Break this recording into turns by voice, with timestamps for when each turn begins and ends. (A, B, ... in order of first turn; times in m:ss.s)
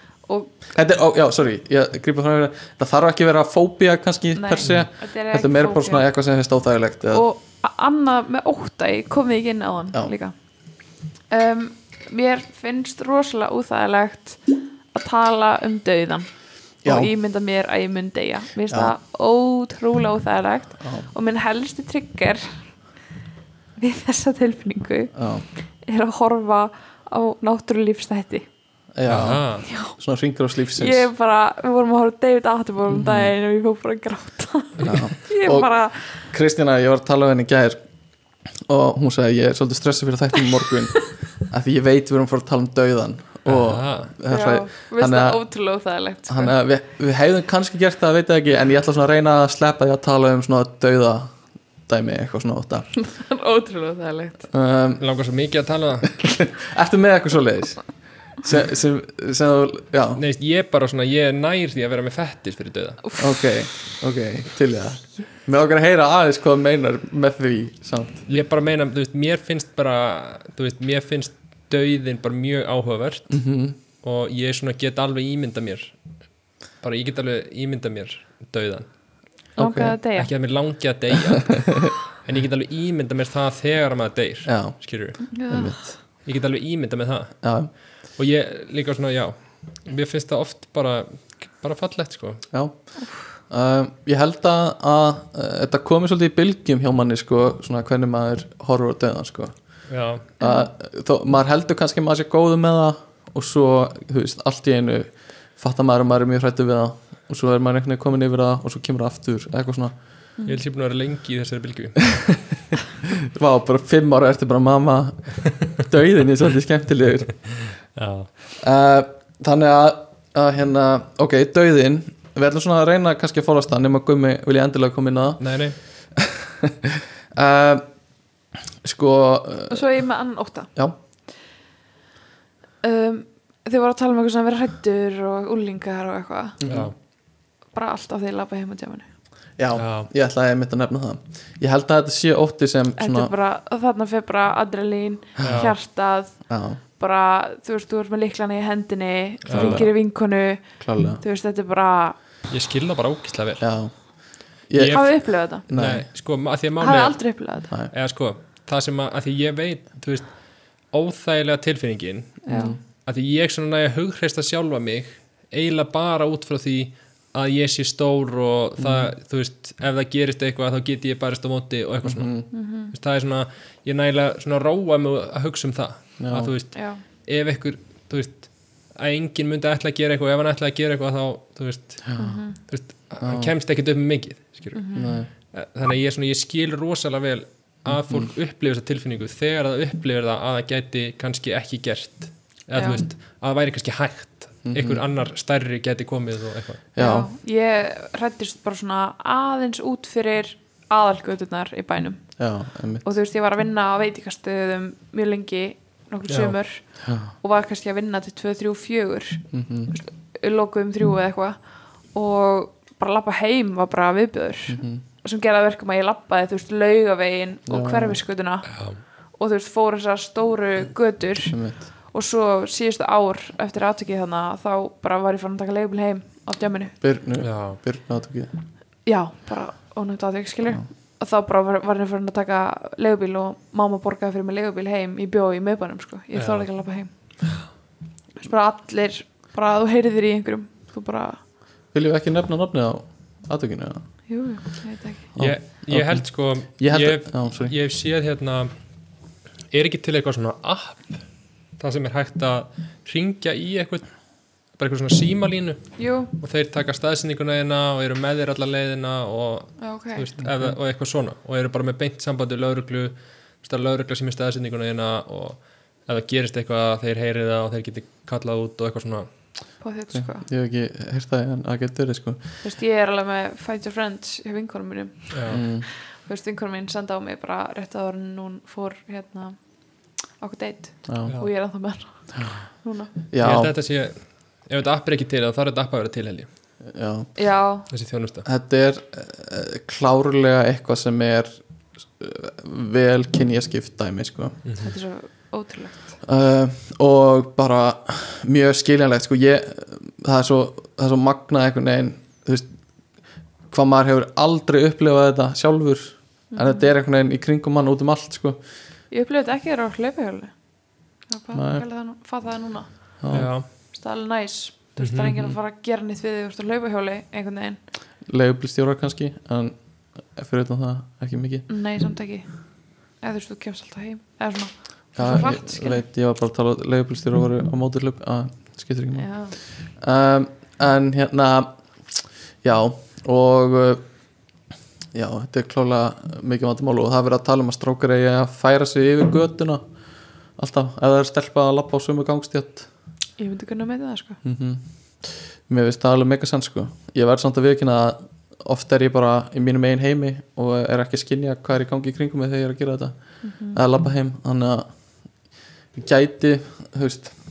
0:00.3-0:00.7 A
0:00.7-0:07.2 B
0:04.4-0:06.1 A
0:07.1-0:10.3 A
0:11.3-0:22.5 A
0:16.8-0:17.1 B
0:20.8-0:21.1 B
0:23.8-0:25.2 A
0:25.2-0:25.5 B
0:25.8-0:28.5 A
0:29.0-0:31.1 B
0:29.1-0:29.7 C
0:29.7-0:30.0 A
0:30.8-0:36.3 A
0:32.9-0:33.3 B
0:34.8-0:35.7 B
0:36.2-0:37.8 B
0:38.6-0:45.4 B
0:43.5-0:44.1 C
0:44.3-0:46.5 A
0:46.3-0:52.9 B
0:53.0-0:54.5 A
0:54.5-0:55.0 B
0:55.0-0:56.2 C
0:56.1-1:00.2 B
1:00.2-1:03.0 C
1:03.1-1:03.4 A
1:03.2-1:08.3 B
1:08.3-1:13.4 C
1:13.3-1:13.8 B
1:14.0-1:16.0 C
1:16.8-1:18.9 C
1:19.6-1:20.3 A
1:19.6-1:20.0 B
1:20.2-1:25.2 C
1:24.5-1:26.0 B
1:25.3-1:25.9 A
1:26.2-1:27.4 C
1:27.4-1:27.7 B
1:28.2-1:32.4 C
1:32.5-1:32.8 B
1:33.0-1:33.3 A
1:33.5-1:39.5 B
1:39.9-1:40.3 C
1:40.4-1:40.7 A
1:40.4-1:50.0 B
1:50.4-1:52.0 C
1:52.1-1:57.5 B
1:57.4-1:58.3 C
1:58.6-2:05.4 B
2:05.4-2:05.8 C
2:06.2-2:07.8 B
2:08.8-2:09.9 B
2:09.7-2:10.7 A
2:12.8-2:16.6 A
2:16.6-2:16.9 B
2:16.6-2:16.9 C
2:17.7-2:19.1 A
2:19.6-2:23.3 B
2:19.8-2:20.1 C
2:23.0-2:32.2 A
2:25.4-2:25.7 B
2:25.4-2:25.7 C
2:26.5-2:26.8 B
2:29.5-2:29.8 C
2:29.5-2:29.9 B
2:30.8-2:31.2 B
2:32.5-2:33.6 C
2:33.6-2:34.0 B
2:34.7-2:36.1 B
2:34.7-2:37.3 C
2:34.9-2:35.6 A
2:36.8-2:37.7 A
2:37.9-3:16.8 C
2:42.5-2:42.8 A
2:42.5-2:42.8 B
2:48.8-2:49.1 B
2:52.0-2:52.5 B
2:52.5-2:52.9 A
2:56.2-2:56.5 B
2:56.7-2:57.0 A
3:02.1-3:02.4 B
3:02.2-3:02.6 A
3:03.2-3:03.5 B
3:04.7-3:05.1 A
3:05.0-3:05.3 B
3:07.9-3:08.3 B
3:12.8-3:13.0 A
3:14.6-3:15.0 B
3:17.0-3:17.3 B
3:17.0-3:22.4 A
3:22.4-3:23.1 B
3:23.0-3:31.6 A
3:26.3-3:26.6 C
3:27.0-3:27.3 B
3:29.5-3:29.9 B
3:32.1-3:47.0 A
3:34.7-3:35.0 B
3:37.7-3:38.2 B
3:38.7-3:39.0 C
3:41.5-3:41.9 B
3:47.0-3:48.6 B
3:47.4-3:47.8 C
3:49.1-3:57.1 A
3:56.4-3:56.7 C
3:58.4-4:01.4 A
4:01.9-4:04.0 B
4:04.3-4:05.3 A
4:05.4-4:07.8 B
4:05.4-4:08.7 C
4:09.7-4:11.2 C
4:11.8-4:14.1 C
4:14.7-4:29.3 C
4:16.0-4:16.3 A
4:19.8-4:20.3 A
4:20.4-4:20.8 B
4:29.8-4:30.5 A
4:30.1-4:32.6 B
4:32.6-4:39.6 A
4:35.3-4:35.6 C
4:35.5-4:35.9 B
4:40.4-4:43.1 A
4:41.1-4:41.3 B
4:42.3-4:42.6 B
4:43.3-4:43.7 B
4:43.4-4:46.5 C
4:46.8-4:47.3 B
4:47.4-4:47.9 A
4:47.9-4:48.4 C
4:48.4-4:51.6 B
4:52.2-4:54.6 B
4:54.7-4:54.9 C
4:54.8-4:56.2 A
4:56.2-5:02.7 B
5:03.7-5:08.6 B
5:06.5-5:06.9 A
5:09.1-5:10.5 A
5:11.3-5:12.9 A
5:11.5-5:11.8 B
5:13.2-5:13.5 B
5:13.3-5:13.7 C
5:13.9-5:17.8 A
5:15.0-5:15.5 C
5:18.3-5:21.7 B
5:21.7-5:22.6 A
5:23.2-5:26.0 A
5:25.2-5:29.3 B
5:29.2-5:29.6 A
5:30.0-5:31.8 B
5:32.6-5:34.0 B
5:35.1-5:39.8 B
5:40.6-5:42.9 B
5:43.4-5:44.4 A
5:44.4-5:53.2 B
5:53.4-5:53.8 A
5:53.7-5:54.9 B
5:56.0-5:57.4 B